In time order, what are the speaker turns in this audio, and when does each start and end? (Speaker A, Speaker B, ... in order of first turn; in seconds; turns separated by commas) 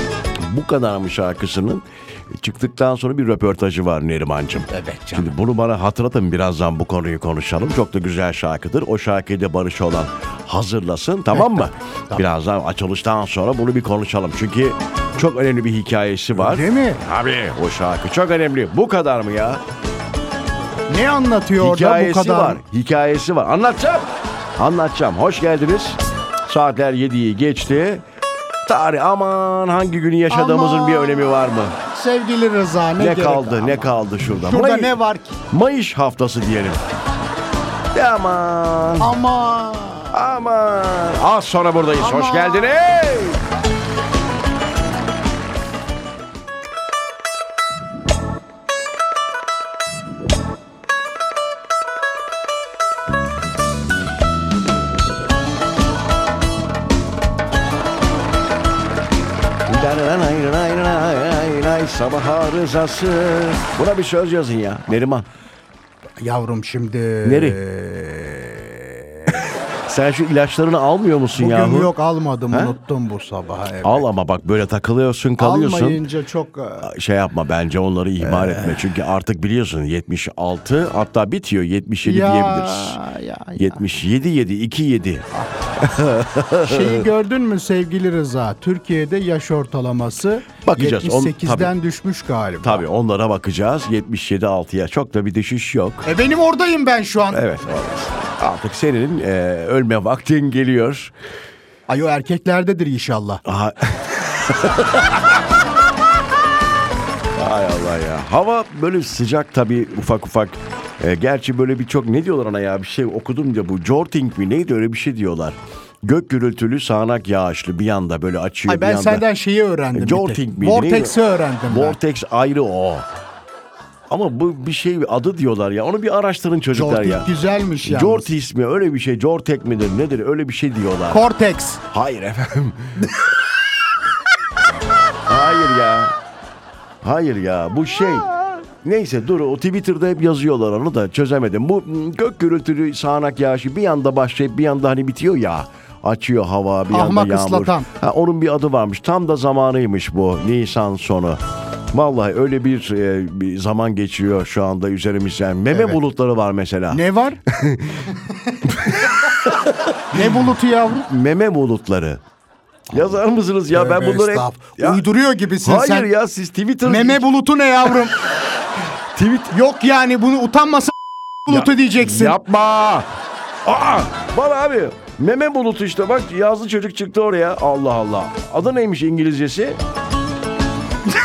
Speaker A: 0.4-19.6, Speaker B: 4.7-5.3, Speaker B: 11.3-12.2, Speaker B: 16.4-17.0, Speaker B: 20.9-22.6, Speaker A: 21.6-28.0, Speaker A: 28.6-31.8, Speaker B: 30.3-35.4, Speaker A: 33.0-35.0, Speaker A: 35.5-36.8, Speaker A: 37.9-39.1, Speaker B: 39.0-40.2, Speaker A: 40.1-43.4, Speaker B: 42.0-42.7, Speaker A: 59.7-65.3, Speaker B: 66.2-69.5, Speaker A: 67.2-67.6, Speaker A: 69.8-71.9, Speaker B: 71.3-74.1, Speaker A: 73.8-76.0, Speaker B: 75.4-76.9, Speaker A: 76.8-83.0, Speaker B: 78.2-78.8, Speaker B: 82.0-83.8, Speaker A: 83.5-87.1, Speaker B: 85.3-85.9, Speaker B: 86.6-92.8, Speaker A: 90.6-91.7, Speaker A: 92.6-96.1, Speaker B: 96.0-97.4, Speaker A: 97.3-101.1, Speaker B: 101.9-103.4, Speaker A: 103.5-105.4, Speaker A: 107.3-119.2, Speaker B: 118.7-122.0, Speaker A: 119.9-123.0, Speaker A: 124.1-127.3, Speaker B: 126.7-128.3, Speaker A: 127.8-131.2, Speaker B: 131.1-131.8, Speaker A: 131.9-133.1, Speaker A: 135.2-136.2, Speaker A: 137.0-151.4, Speaker B: 146.9-147.9, Speaker A: 151.9-158.1, Speaker B: 155.7-156.0, Speaker B: 156.9-157.4, Speaker A: 158.6-160.4, Speaker B: 160.1-161.1, Speaker A: 161.1-162.2, Speaker A: 162.9-165.0, Speaker B: 163.7-166.1, Speaker A: 165.6-167.2, Speaker B: 166.8-168.2, Speaker A: 169.1-169.5, Speaker B: 169.5-172.4, Speaker A: 171.5-173.1, Speaker A: 173.6-179.8